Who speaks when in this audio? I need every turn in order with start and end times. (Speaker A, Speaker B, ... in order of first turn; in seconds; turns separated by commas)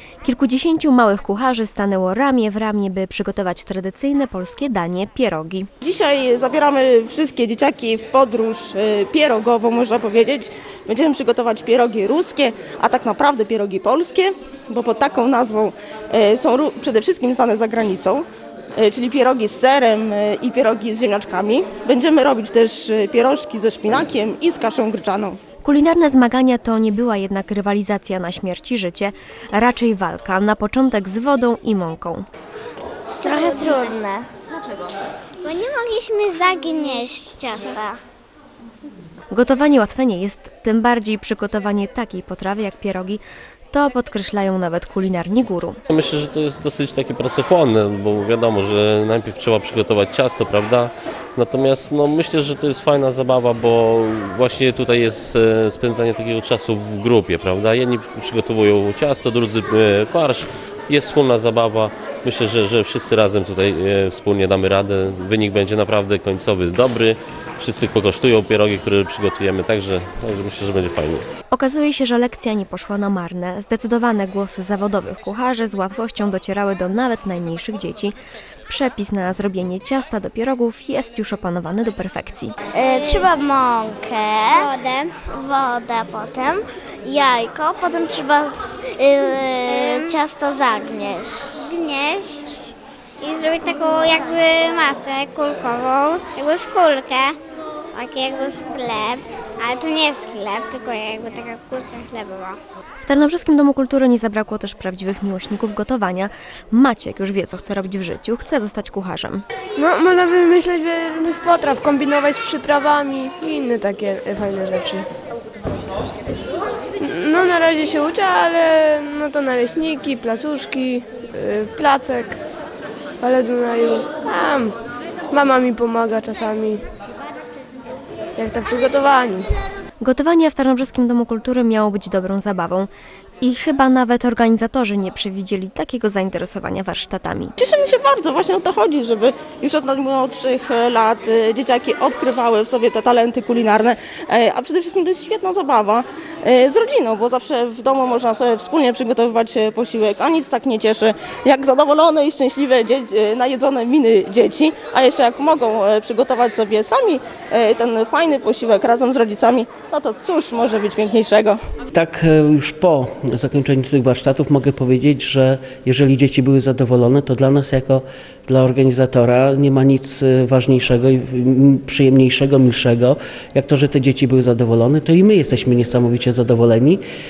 Speaker A: 0.2-5.7, Speaker B: 5.8-18.2, Speaker B: 18.8-25.4, Speaker A: 25.6-32.2, Speaker C: 33.2-34.3, Speaker D: 33.3-33.8, Speaker D: 35.4-37.7, Speaker C: 36.8-38.0, Speaker A: 39.3-43.2, Speaker A: 43.7-45.8, Speaker E: 45.9-71.2, Speaker A: 71.5-78.1, Speaker A: 78.7-82.5, Speaker C: 82.7-84.7, Speaker D: 82.8-83.4, Speaker D: 84.5-85.1, Speaker C: 85.3-91.5, Speaker D: 89.7-90.2, Speaker D: 91.6-97.4, Speaker D: 97.9-102.6, Speaker A: 103.0-109.4, Speaker F: 109.8-115.0, Speaker F: 117.0-122.4, Speaker F: 123.2-124.8, Speaker F: 125.3-126.8, Speaker F: 128.4-129.5, Speaker A: 130.0-132.9, Speaker A: 133.4-137.5, Speaker B: 137.6-161.6, Speaker G: 161.9-177.0